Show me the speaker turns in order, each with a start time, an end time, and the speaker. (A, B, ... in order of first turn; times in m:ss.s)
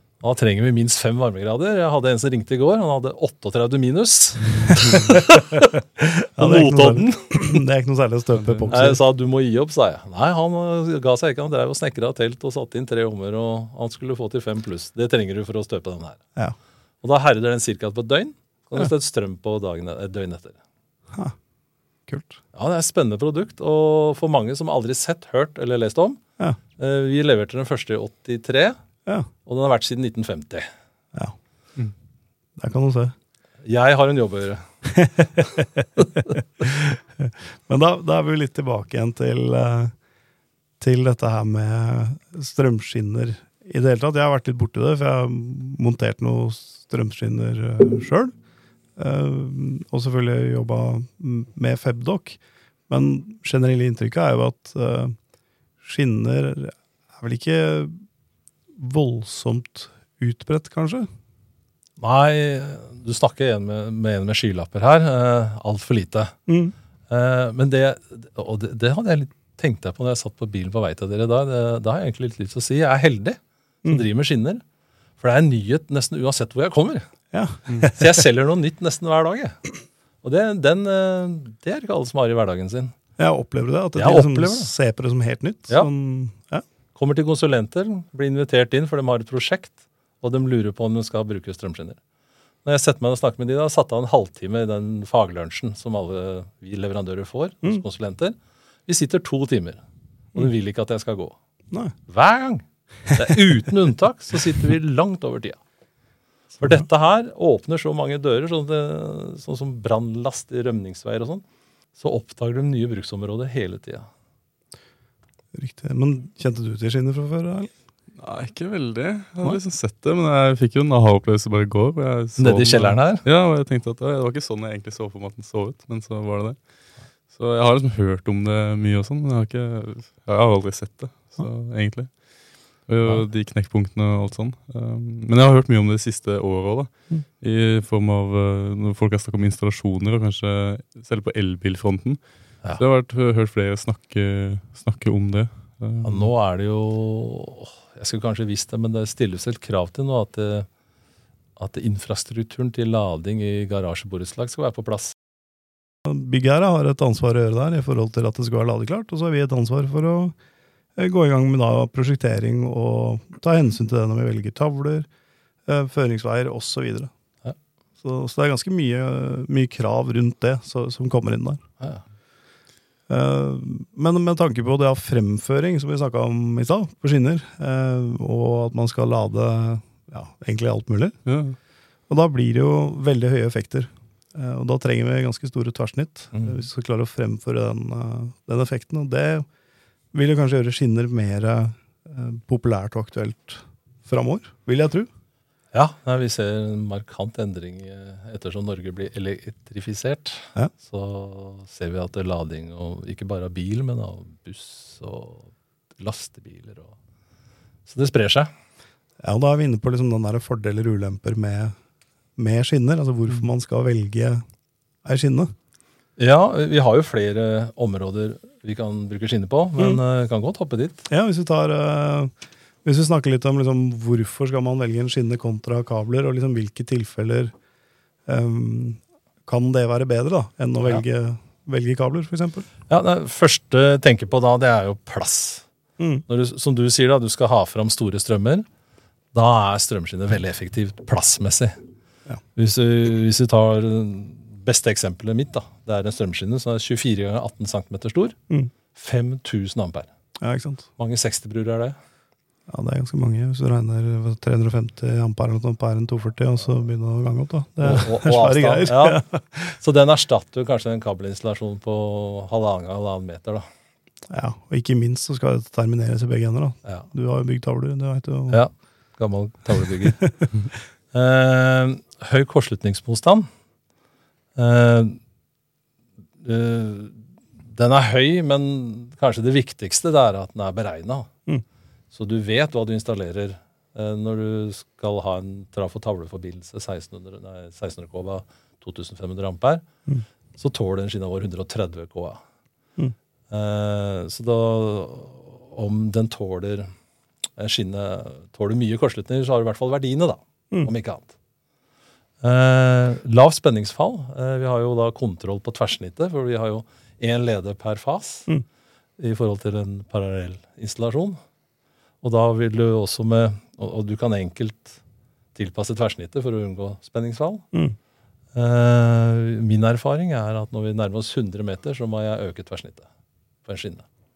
0:00.2-0:05.8 A
0:06.0-0:09.0 B
0:06.4-0:07.6 A
0:08.4-0:08.7 C
0:08.7-0:16.2 A
0:17.0-0:20.6 A
0:22.1-0:22.4 B
0:22.5-0:26.2 A
0:26.8-0:28.8 A
0:29.4-0:30.6 A
0:32.6-0:33.1 B
0:33.6-0:34.6 A
0:34.9-0:39.9 B
0:40.8-0:48.3 B
0:49.0-0:55.1 B
0:55.8-0:58.0 B
0:58.8-1:01.1 B
1:02.0-1:06.3 A
1:06.5-1:06.7 B
1:07.1-1:14.6 A
1:15.2-1:17.0 A
1:17.3-1:18.1 B
1:17.8-1:19.6 A
1:20.2-1:22.9 A
1:23.2-1:26.6 B
1:24.0-1:24.7 A
1:26.9-1:32.0 A
1:32.6-1:38.4 A
1:38.9-1:39.8 A
1:40.3-1:41.4 A
1:42.1-1:45.6 A
1:46.6-1:51.4 A
1:52.0-1:54.1 A
1:55.5-1:57.7 B
1:58.2-2:06.6 C
2:02.4-2:03.2 A
2:07.3-2:12.1 C
2:12.9-2:22.2 C
2:22.8-2:26.3 C
2:26.0-2:30.7 A
2:31.6-2:35.1 A
2:36.0-2:40.3 B
2:41.0-2:45.1 B
2:45.7-2:47.1 B
2:48.0-2:51.6 B
2:53.1-3:01.2 B
3:01.2-3:01.6 C
3:02.1-3:09.4 B
3:10.1-3:15.1 B
3:15.7-3:26.9 A
3:27.8-3:28.5 A
3:29.2-3:31.7 B
3:32.4-3:34.4 B
3:35.0-3:35.5 B
3:36.2-3:41.1 A
3:41.1-3:42.3 B
3:42.8-3:47.5 B
3:48.3-3:52.6 B
3:52.9-3:55.6 A
3:56.0-3:56.2 B
3:56.3-3:58.6 A
3:59.3-4:01.8 A
4:02.6-4:08.4 A
4:08.9-4:10.1 A
4:10.4-4:10.9 B
4:11.0-4:12.0 A
4:12.7-4:19.8 B
4:17.8-4:19.2 A
4:19.8-4:23.6 A
4:24.3-4:28.6 B
4:28.5-4:30.2 A
4:30.0-4:30.5 B
4:31.1-4:33.5 A
4:34.6-4:35.2 A
4:36.4-4:41.3 A
4:42.1-4:49.8 A
4:50.6-4:52.4 A
4:53.5-4:56.9 A
4:57.6-5:01.3 A
5:02.4-5:08.5 A
5:09.2-5:11.4 A
5:12.2-5:15.0 A
5:15.5-5:17.6 A
5:18.5-5:23.1 A
5:23.6-5:24.0 A